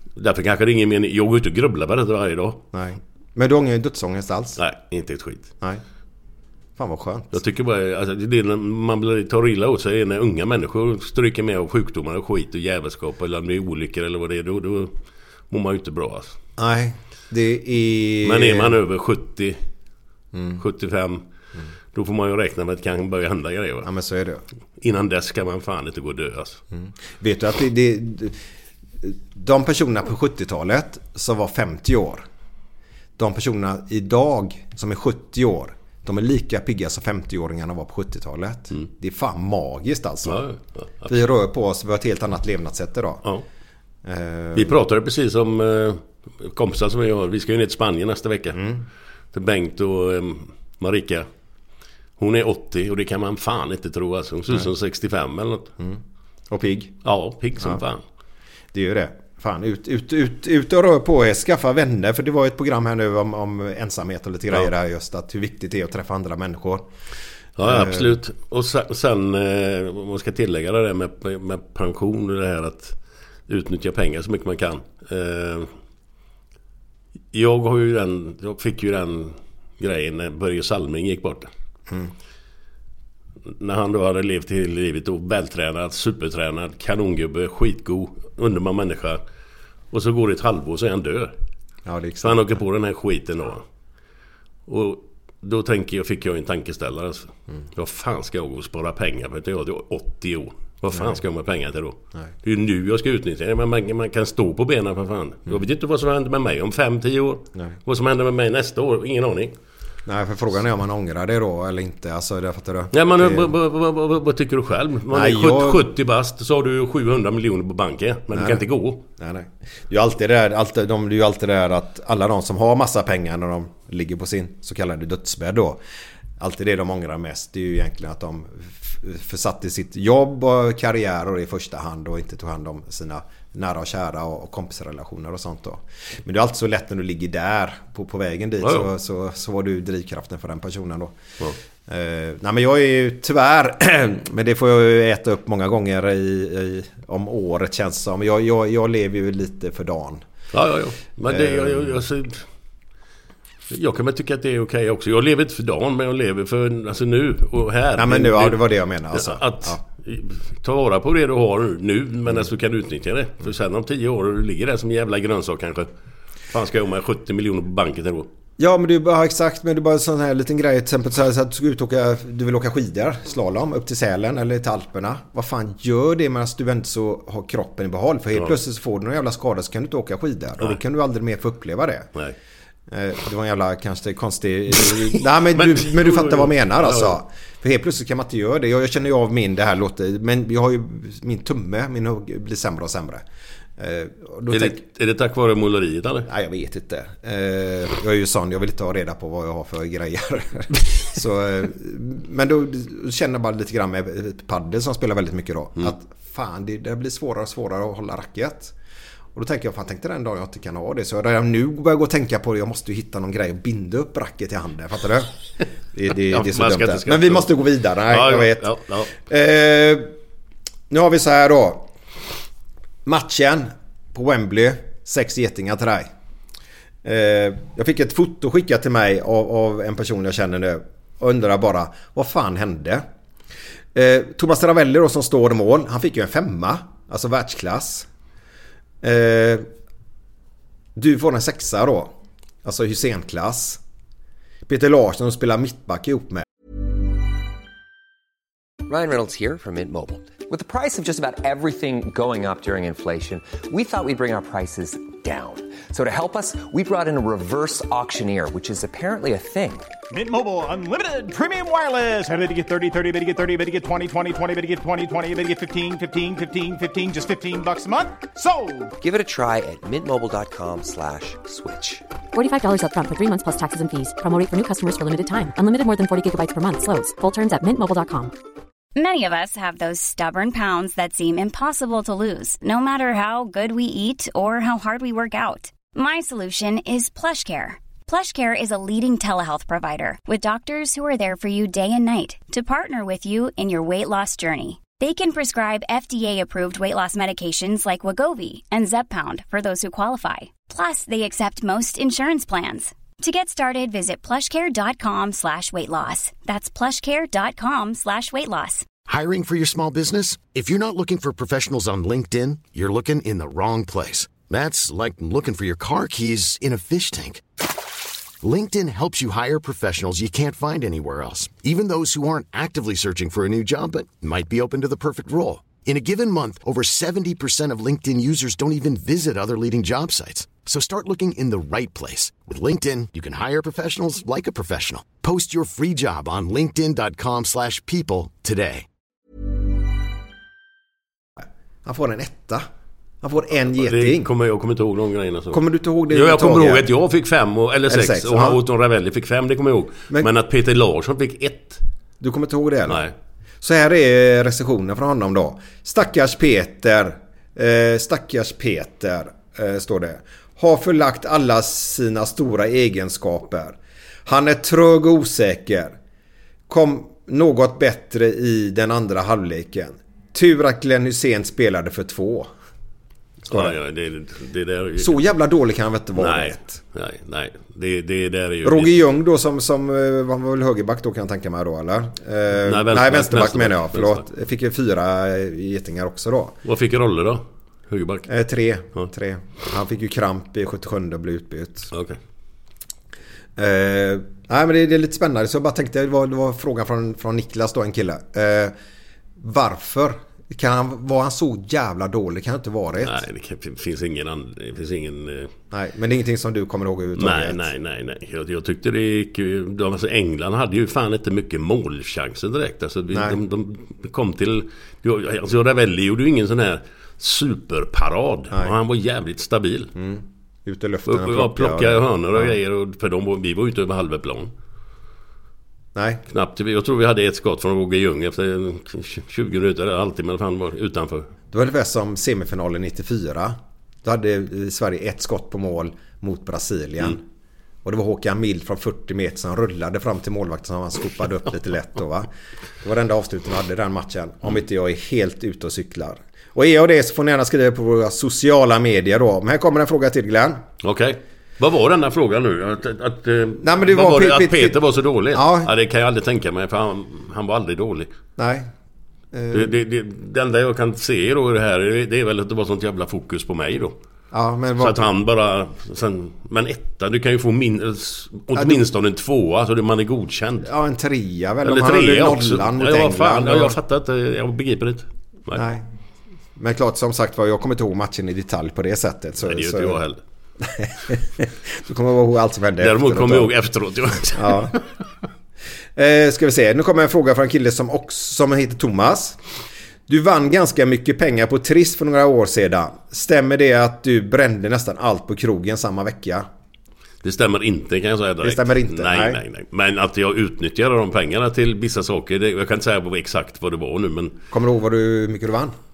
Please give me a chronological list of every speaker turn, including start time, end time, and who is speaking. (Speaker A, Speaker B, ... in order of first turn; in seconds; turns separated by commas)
Speaker A: 0.2-2.6, Speaker B: 2.7-4.6, Speaker A: 4.6-5.5, Speaker B: 6.8-7.4, Speaker A: 7.3-14.9, Speaker A: 15.5-16.4, Speaker B: 16.6-18.8, Speaker A: 18.2-19.6, Speaker B: 20.3-20.6, Speaker A: 20.6-21.2, Speaker A: 21.9-23.9, Speaker B: 23.8-24.4, Speaker A: 24.8-26.6, Speaker B: 26.7-28.4, Speaker B: 29.0-32.2, Speaker B: 33.2-40.4, Speaker A: 40.2-41.3, Speaker B: 41.0-43.2, Speaker B: 44.0-44.8, Speaker A: 44.5-48.6, Speaker B: 48.5-48.8, Speaker A: 49.3-51.3, Speaker A: 52.2-55.7, Speaker B: 55.8-57.0, Speaker A: 57.0-58.0, Speaker B: 58.7-66.9, Speaker A: 67.6-75.7, Speaker B: 67.6-68.2, Speaker A: 77.3-81.5, Speaker A: 83.5-89.2, Speaker A: 89.9-91.3, Speaker B: 91.8-92.6, Speaker A: 92.2-93.6, Speaker A: 94.7-109.5, Speaker B: 100.9-101.2, Speaker B: 110.0-113.5, Speaker A: 112.9-119.0, Speaker B: 115.1-115.9, Speaker B: 118.3-118.7, Speaker B: 119.2-125.8, Speaker B: 126.4-141.2, Speaker A: 138.6-138.9, Speaker B: 141.8-150.2, Speaker A: 150.5-152.4, Speaker B: 151.2-152.0, Speaker A: 153.7-165.9, Speaker B: 157.9-159.8, Speaker A: 166.5-168.3, Speaker B: 168.6-182.1, Speaker B: 182.9-193.2, Speaker A: 185.5-187.2, Speaker B: 193.8-194.8, Speaker A: 194.5-196.3, Speaker B: 196.2-208.7, Speaker B: 209.3-215.3, Speaker B: 215.9-220.1, Speaker A: 216.3-217.6, Speaker A: 218.1-219.2, Speaker B: 220.9-221.9, Speaker B: 223.0-226.1, Speaker B: 227.0-233.0, Speaker B: 233.9-238.1, Speaker B: 239.0-239.7, Speaker B: 240.9-243.8, Speaker B: 244.7-246.4, Speaker C: 248.9-259.9, Speaker D: 260.1-268.9, Speaker C: 269.0-272.0, Speaker E: 272.3-278.3, Speaker F: 278.9-308.9, Speaker G: 309.1-317.4, Speaker G: 318.4-338.9, Speaker B: 341.4-342.6, Speaker B: 343.2-344.3, Speaker A: 343.7-351.8, Speaker B: 345.5-346.9, Speaker B: 347.9-348.6, Speaker B: 352.2-353.0, Speaker A: 352.9-353.1, Speaker B: 353.6-366.0, Speaker B: 366.7-372.5, Speaker A: 373.5-375.1, Speaker B: 373.5-373.8, Speaker B: 375.0-376.8, Speaker A: 376.2-378.9, Speaker B: 378.6-386.6, Speaker A: 382.6-384.2, Speaker A: 386.6-388.3, Speaker B: 388.3-391.9, Speaker A: 391.9-392.2, Speaker B: 393.6-398.7, Speaker B: 399.4-403.2, Speaker A: 403.0-405.5, Speaker B: 405.7-407.7, Speaker A: 407.2-419.9, Speaker B: 413.1-413.4, Speaker B: 419.9-422.5, Speaker A: 421.1-424.5, Speaker B: 425.9-426.2, Speaker A: 426.3-431.3, Speaker B: 431.5-437.2, Speaker B: 437.8-442.3, Speaker B: 442.8-450.6, Speaker A: 450.8-458.1, Speaker B: 453.6-454.8, Speaker B: 455.3-455.7, Speaker B: 458.4-458.7, Speaker B: 459.3-459.8, Speaker A: 459.5-463.9, Speaker B: 464.3-465.1, Speaker A: 464.8-470.7, Speaker B: 468.5-468.8, Speaker B: 470.6-473.8, Speaker A: 471.6-475.6, Speaker B: 475.5-475.9, Speaker B: 476.6-480.0, Speaker A: 479.4-480.2, Speaker B: 480.6-483.5, Speaker A: 482.8-484.9, Speaker B: 484.3-484.8, Speaker B: 485.9-489.4, Speaker B: 490.1-496.5, Speaker A: 497.2-504.4, Speaker B: 498.4-499.4, Speaker B: 504.5-505.7